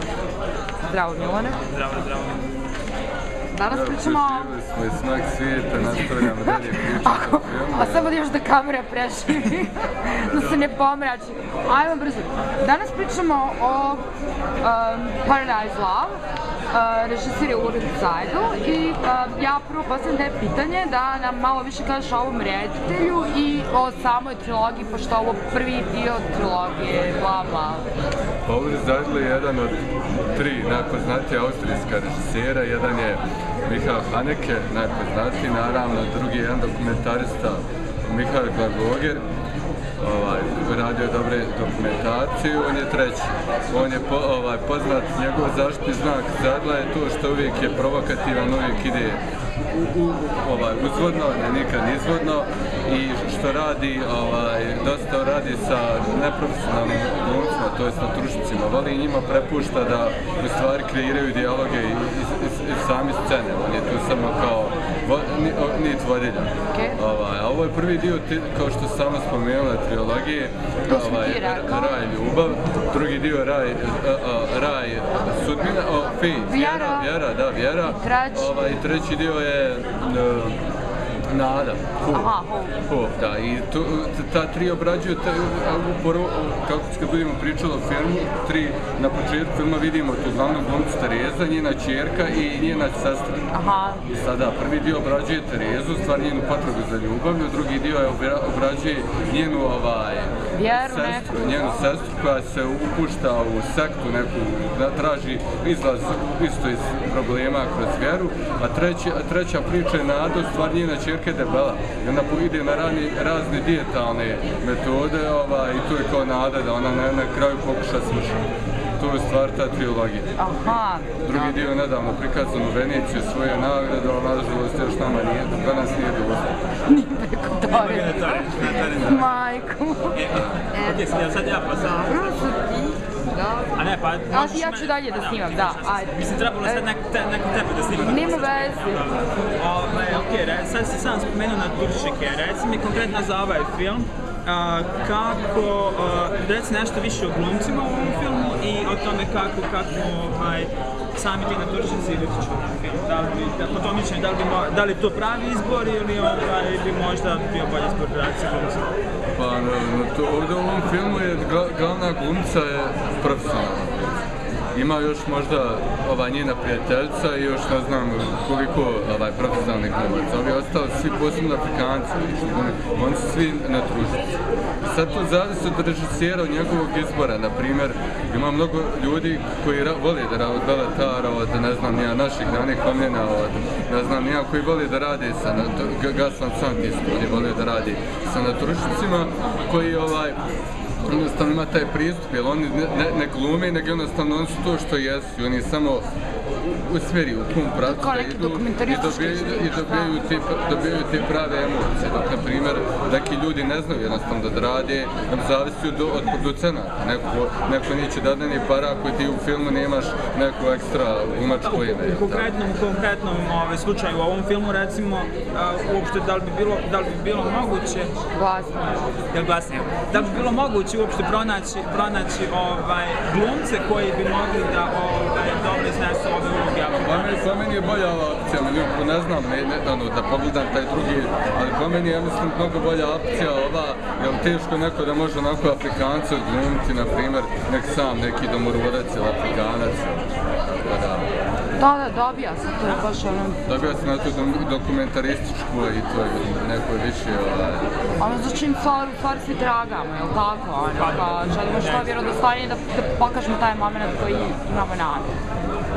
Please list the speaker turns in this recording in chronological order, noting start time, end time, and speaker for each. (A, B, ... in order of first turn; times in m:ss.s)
0:00.8-0:01.6 A
0:01.6-0:02.4 B
0:03.5-0:04.5 A
0:03.7-0:08.1 C
0:06.2-0:14.0 A
0:14.6-0:16.2 A
0:16.7-0:27.8 A
0:28.4-0:29.8 C
0:30.3-0:39.2 C
0:40.0-0:49.2 C
0:49.7-1:20.6 C
1:06.7-1:07.0 A
1:10.9-1:12.0 A
1:16.5-1:17.1 A
1:17.9-1:18.5 A
1:21.3-1:33.5 C
1:22.1-1:22.7 A
1:33.5-1:34.0 A
1:34.1-1:58.4 C
1:40.5-1:41.7 A
1:59.0-2:00.3 C
2:00.4-2:01.6 A
2:01.2-2:06.6 C
2:06.9-2:10.2 A
2:07.7-2:09.3 B
2:10.1-2:12.4 B
2:10.7-2:11.1 A
2:12.0-2:13.7 A
2:13.7-2:38.9 B
2:14.3-2:16.9 A
2:18.0-2:19.1 A
2:39.4-2:44.2 C
2:44.7-3:10.4 C
3:11.0-3:16.0 C
3:16.6-3:32.5 C
3:17.8-3:20.2 A
3:31.6-3:38.1 B
3:38.3-3:39.0 A
3:39.3-3:47.5 B
3:46.9-4:01.3 C
4:01.8-4:03.6 A
4:03.6-4:07.9 C
4:08.2-4:15.3 A
4:11.0-4:12.1 B